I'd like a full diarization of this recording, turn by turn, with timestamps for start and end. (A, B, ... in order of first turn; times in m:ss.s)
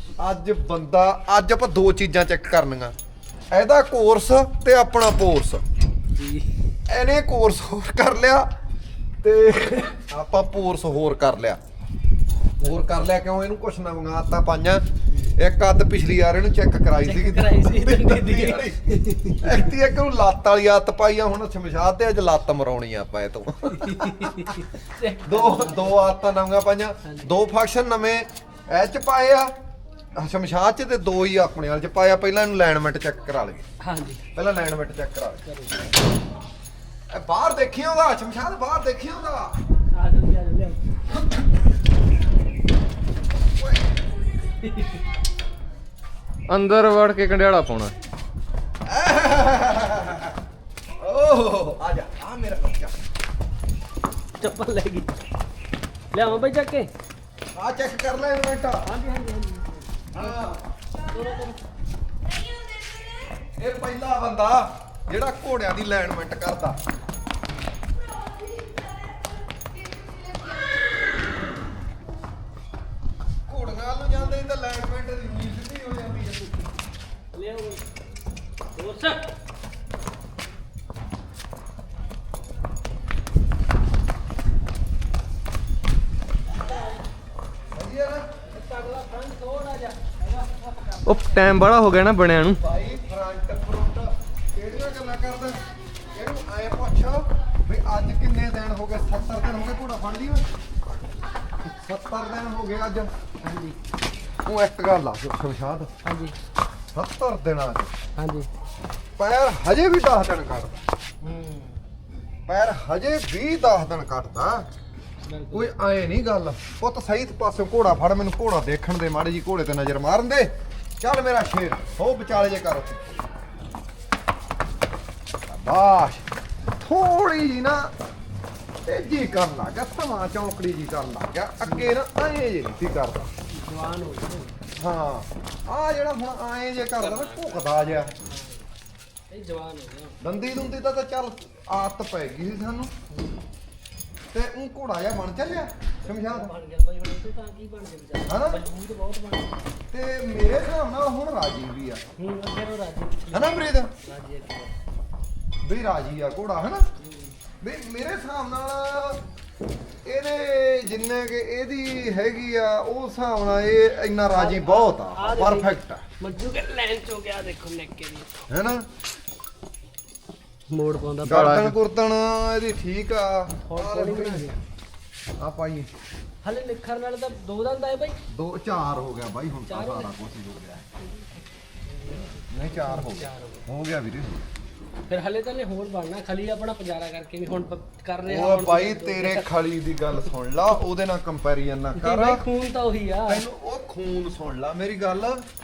0:00.2-0:02.9 A
0:03.5-0:05.6 A
0:06.1-0:06.5 B
0:06.9-0:08.5 A
0:09.2-0:11.6 A
0:12.6-0:24.6 A
0:17.0-0:19.7 B
0:23.7-0:26.1 B
0:25.2-0:29.5 A
0:27.0-0:27.3 B
0:30.2-0:33.6 A
0:33.8-0:34.2 B
0:34.4-0:35.4 A
0:35.4-0:35.8 B
0:37.1-0:39.5 A
0:39.9-0:41.2 B
0:43.6-0:44.0 A
0:44.6-0:45.0 B
0:46.5-0:47.9 C
0:48.8-0:50.4 A
0:51.0-0:52.9 A
0:54.4-0:55.1 B
0:56.1-0:56.9 B
0:57.5-0:58.8 A
0:58.8-1:00.5 B
1:00.1-1:00.6 A
1:01.1-1:01.6 B
1:03.6-1:06.8 A
1:13.5-1:16.7 A
1:17.3-1:17.8 B
1:18.8-1:19.3 B
1:26.6-1:27.0 B
1:27.7-1:28.2 A
1:28.5-1:31.3 B
1:31.0-1:32.6 C
1:32.4-1:35.6 A
1:36.1-1:40.4 A
1:41.7-1:43.1 A
1:43.4-1:43.8 B
1:44.4-1:45.9 A
1:46.0-1:46.3 B
1:46.9-1:47.9 A
1:48.2-1:48.5 B
1:49.2-1:50.8 A
1:51.2-1:51.8 B
1:52.5-1:54.6 A
1:55.2-1:55.7 B
1:55.5-2:03.2 A
2:05.5-2:06.2 A
2:06.8-2:07.9 A
2:08.8-2:13.3 A
2:11.6-2:11.9 B
2:13.5-2:14.6 B
2:14.8-2:18.1 A
2:17.0-2:17.6 B
2:18.2-2:18.7 B
2:19.3-2:20.2 B
2:20.2-2:22.9 A
2:24.3-2:26.5 A
2:26.0-2:29.6 B
2:28.3-2:28.6 A
2:29.9-2:32.0 A
2:32.2-2:34.7 B
2:33.3-2:33.9 A
2:35.6-2:36.9 A
2:37.0-2:37.3 B
2:37.6-2:39.2 A
2:40.0-2:46.0 A
2:44.3-2:48.5 B
2:48.5-2:48.8 A
2:50.7-2:51.7 B
2:51.2-2:51.7 C
2:51.2-2:54.5 A
2:53.6-2:54.6 B
2:55.4-2:55.9 A
2:56.4-2:58.2 B
2:58.3-3:00.8 A
2:59.7-3:00.1 B
3:01.9-3:03.6 B
3:02.5-3:04.4 A
3:05.1-3:09.5 B
3:08.2-3:12.4 A
3:12.0-3:13.4 B
3:13.2-3:15.4 A